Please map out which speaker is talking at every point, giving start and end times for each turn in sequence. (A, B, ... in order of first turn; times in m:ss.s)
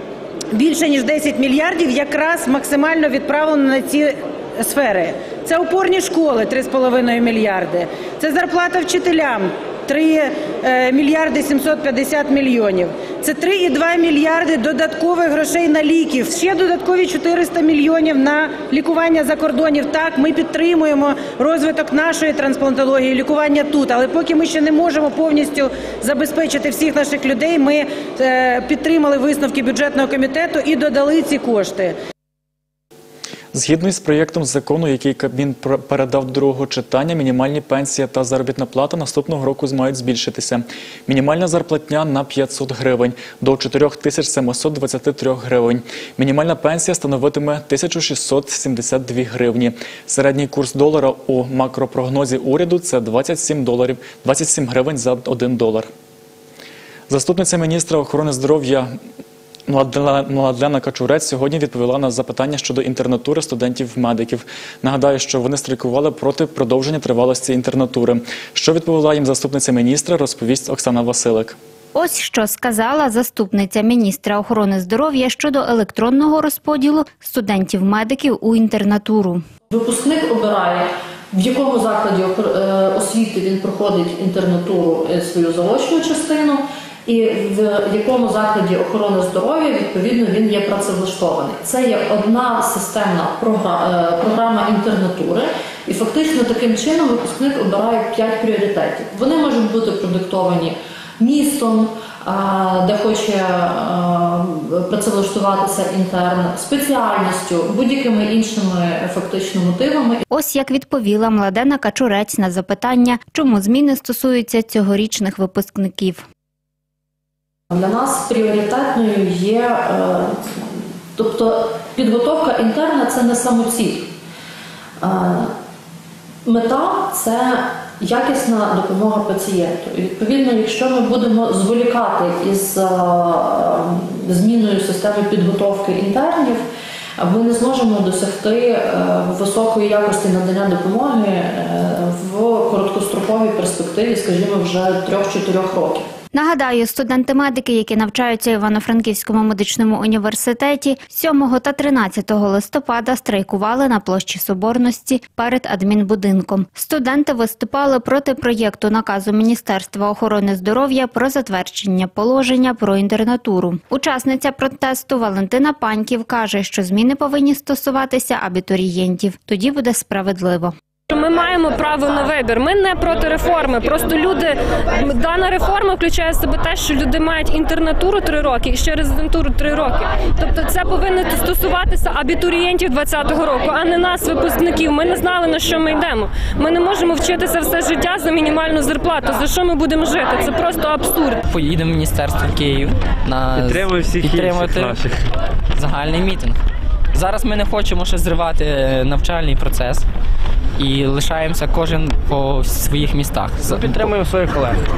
0:00.5-0:31.9 A
0:33.5-0:55.9 B
0:57.1-0:58.9 B
0:59.7-1:11.6 B
1:12.0-1:19.4 C
1:19.7-1:50.2 D
1:50.3-1:56.2 C
1:57.7-2:00.6 D
2:01.2-2:04.1 D
2:05.0-2:05.5 D
2:06.4-2:16.6 D
2:17.2-2:26.1 D
2:26.3-2:50.8 C
2:51.2-2:54.5 E
2:55.2-3:11.3 E
3:11.5-3:15.1 F
3:13.4-3:15.1 G
3:15.8-3:16.6 F
3:17.2-3:20.0 F
3:20.8-3:23.9 F
3:23.6-3:24.1 G